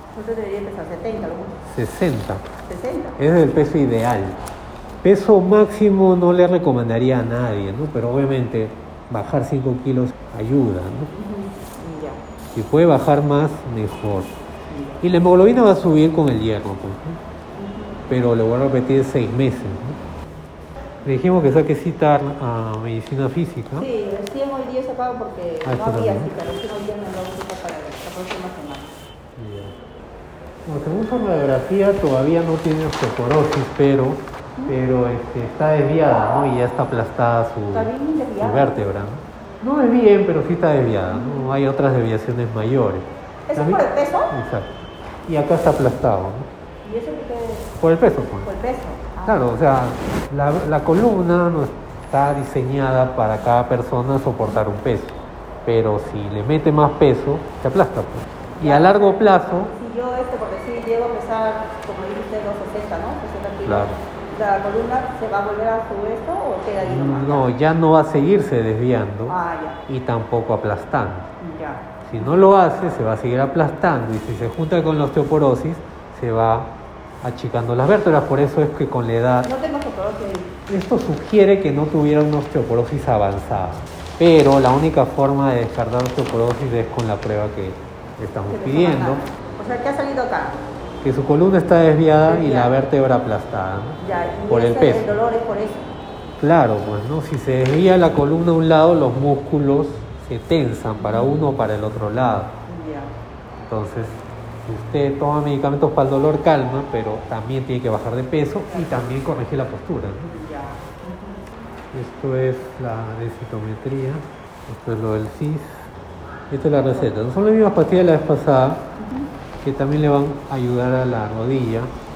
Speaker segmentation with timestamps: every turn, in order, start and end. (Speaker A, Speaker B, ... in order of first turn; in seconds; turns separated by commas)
Speaker A: 0.1-1.6, Speaker B: 1.6-2.5, Speaker A: 2.6-3.2, Speaker B: 3.2-4.4, Speaker B: 5.0-11.1, Speaker A: 11.1-12.2, Speaker B: 12.5-14.4, Speaker A: 14.7-15.0, Speaker B: 15.0-17.2, Speaker A: 17.6-18.0, Speaker B: 18.1-20.0, Speaker B: 21.1-23.9, Speaker A: 23.8-28.9, Speaker B: 25.6-26.3, Speaker B: 29.4-29.8, Speaker B: 30.6-37.9, Speaker A: 37.7-38.8, Speaker B: 38.4-44.7, Speaker A: 41.1-41.5, Speaker A: 43.5-44.3, Speaker B: 45.2-46.5, Speaker A: 46.8-47.7, Speaker B: 47.8-48.5, Speaker A: 48.4-49.5, Speaker B: 49.2-59.7, Speaker A: 58.6-67.5, Speaker B: 63.6-64.0, Speaker B: 66.8-69.4, Speaker A: 69.3-69.8, Speaker B: 69.9-71.3, Speaker A: 71.4-72.5, Speaker B: 72.1-79.5, Speaker A: 79.4-80.6, Speaker B: 80.7-89.2, Speaker A: 88.5-90.6, Speaker B: 91.0-95.2, Speaker A: 92.2-92.7, Speaker A: 94.0-95.9, Speaker B: 96.4-102.5, Speaker A: 101.0-101.3, Speaker A: 102.7-103.1, Speaker B: 103.7-110.3, Speaker A: 108.7-109.2, Speaker A: 110.2-111.4, Speaker B: 111.9-115.9, Speaker B: 116.5-118.9, Speaker A: 119.0-119.3, Speaker B: 119.6-121.9